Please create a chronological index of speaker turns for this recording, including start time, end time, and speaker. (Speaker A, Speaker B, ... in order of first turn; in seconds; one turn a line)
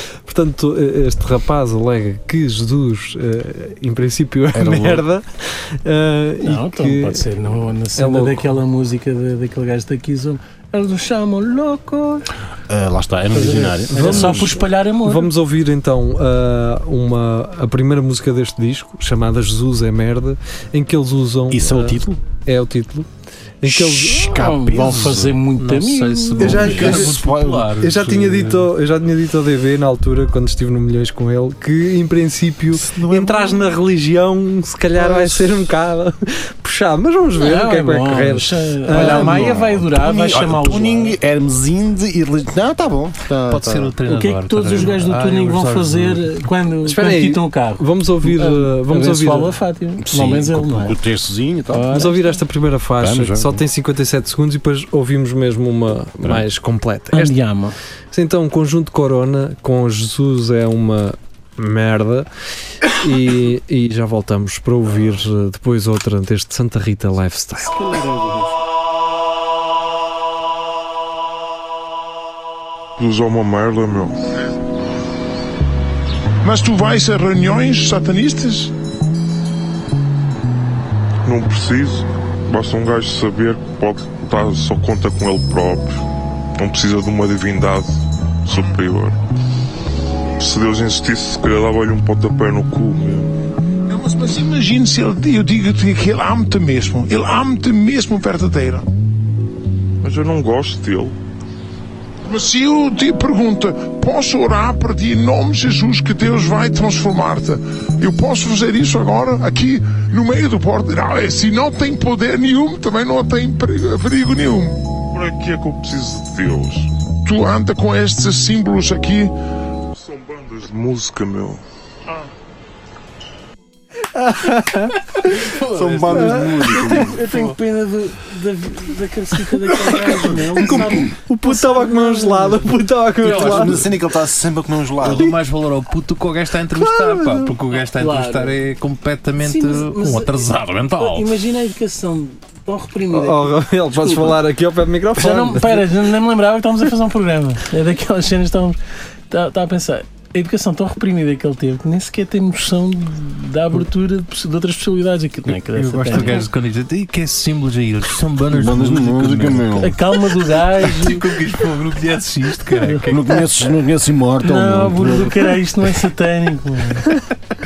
Speaker A: 0.3-7.3
Speaker B: 4.5-5.0
Speaker C: 6.4-12.2
Speaker A: 8.0-8.5
Speaker B: 12.7-14.6
Speaker C: 13.3-15.3
Speaker A: 13.9-23.1
Speaker B: 21.5-22.2
Speaker A: 23.6-24.4
Speaker B: 23.6-25.4
Speaker C: 24.3-26.9
Speaker D: 25.6-28.7
Speaker A: 26.4-27.1
Speaker B: 26.4-27.8
Speaker A: 27.8-39.5
Speaker B: 32.7-33.8
Speaker B: 35.0-35.5
Speaker C: 37.4-41.1
Speaker B: 38.9-44.0
Speaker D: 43.5-46.4
Speaker C: 44.1-51.0
Speaker A: 46.8-49.5
Speaker B: 50.0-52.1
Speaker C: 51.7-52.4
Speaker A: 51.9-57.4
Speaker B: 53.0-53.6
Speaker C: 57.1-57.8
Speaker A: 58.1-62.3
Speaker A: 62.9-68.0
Speaker C: 67.6-68.6
Speaker E: 73.0-74.2
Speaker F: 76.4-78.7
Speaker E: 81.2-86.0
Speaker E: 86.6-87.9
Speaker E: 88.5-89.2
Speaker E: 90.4-93.3
Speaker F: 93.9-98.9
Speaker E: 100.0-101.2
Speaker F: 102.2-114.8
Speaker E: 115.1-116.9
Speaker F: 117.2-119.3
Speaker E: 119.9-121.6
Speaker A: 124.1-125.4
Speaker D: 125.3-126.5
Speaker B: 125.5-127.3
Speaker A: 126.1-127.0
Speaker C: 126.9-132.7
Speaker A: 130.6-133.8
Speaker D: 133.2-133.9
Speaker B: 133.2-135.3
Speaker D: 135.0-140.9
Speaker A: 136.8-137.5
Speaker C: 138.0-138.6
Speaker C: 139.4-140.5
Speaker B: 140.4-141.3
Speaker C: 141.0-144.4
Speaker A: 143.1-145.8
Speaker C: 145.2-148.8
Speaker C: 149.3-156.5
Speaker D: 155.7-159.7
Speaker B: 156.0-156.4
Speaker B: 158.5-160.0
Speaker C: 159.8-161.4
Speaker D: 160.8-163.2
Speaker B: 163.1-165.6
Speaker C: 164.4-167.2